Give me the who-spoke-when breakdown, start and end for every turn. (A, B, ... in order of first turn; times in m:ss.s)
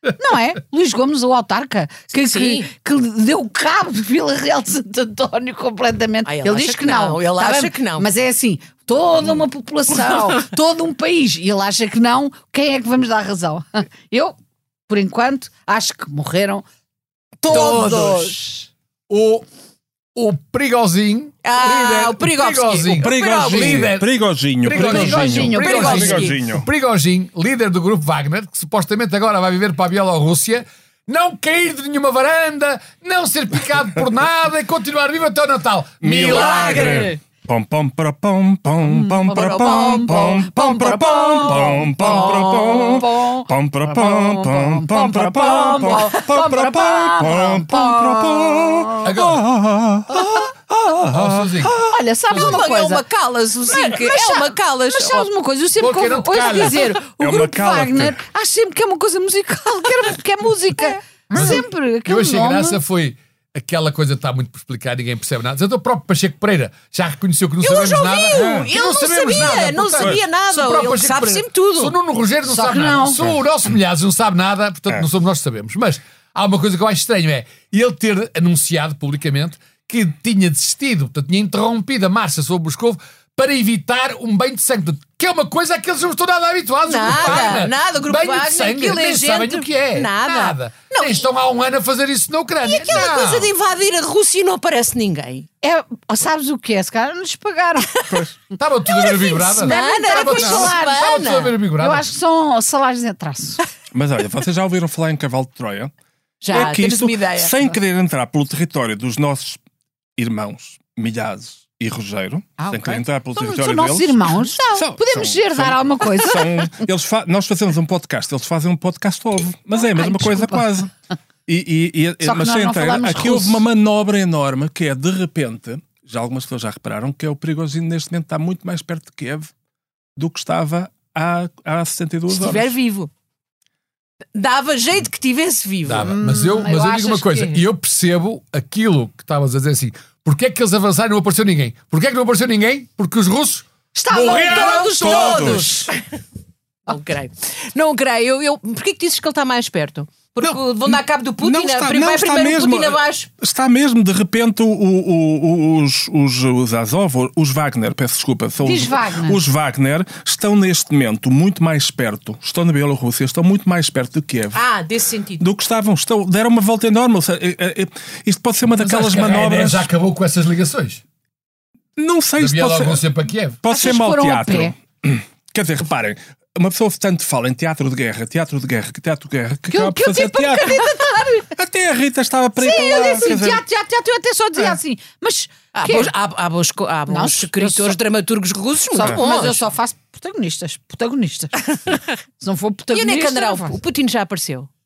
0:00.2-0:14.4 A
0:02.1-0:02.7 B
0:06.2-0:08.0 B
0:14.9-0:16.6 A
0:17.4-0:18.4 B
0:17.4-0:18.4 A
0:17.5-0:18.4 C
0:19.1-0:19.4 C
0:20.1-0:37.1 C
0:21.4-0:23.9 B
0:22.9-0:26.7 D
0:24.7-0:26.3 A
0:25.5-0:26.4 B
0:36.0-0:51.8 D
0:36.2-0:37.2 B
0:38.9-0:49.1 A
0:39.2-0:40.6 B
0:41.4-0:43.0 B
0:45.7-0:46.0 B
0:49.0-0:49.4 C
0:50.1-0:50.5 A
0:51.0-0:51.7 C
0:51.8-0:53.0 A
0:52.3-0:55.3 B
0:52.3-0:52.6 C
0:53.8-1:02.8 A
0:55.8-0:57.0 C
0:57.2-0:58.2 D
1:01.3-1:33.5 C
1:07.6-1:12.0 B
1:08.3-1:08.7 D
1:09.4-1:10.2 D
1:12.4-1:13.2 A
1:26.8-1:31.3 B
1:32.6-1:35.5 B
1:35.6-1:38.0 A
1:38.1-1:38.3 D
1:38.5-1:42.0 C
1:38.9-1:41.2 A
1:39.5-1:41.6 B
1:41.8-1:43.6 A
1:43.9-1:45.9 D
1:46.4-1:47.6 B
1:46.5-1:49.6 D
1:50.2-2:00.9 D
1:52.6-1:56.7 A
1:59.9-2:00.6 A
2:01.4-2:09.5 D
2:02.2-2:03.6 A
2:10.2-2:12.7 D
2:12.3-2:13.1 B
2:14.3-2:16.1 B
2:15.8-2:25.7 C
2:16.0-2:17.6 A
2:23.9-2:25.1 A
2:24.3-2:26.0 B
2:25.0-2:25.8 D
2:26.9-2:33.3 B
2:30.4-2:44.6 D
2:38.6-2:39.4 A
2:44.5-2:45.4 B
2:45.4-2:49.9 D
2:48.8-2:51.0 C
2:52.0-2:53.0 D
2:52.4-2:53.6 C
2:53.6-3:03.6 D
2:53.7-2:54.7 A
2:59.7-3:01.5 A
3:02.6-3:06.1 A
3:05.7-3:09.6 B
3:07.1-3:08.0 A
3:08.9-3:13.8 A
3:12.9-3:14.7 B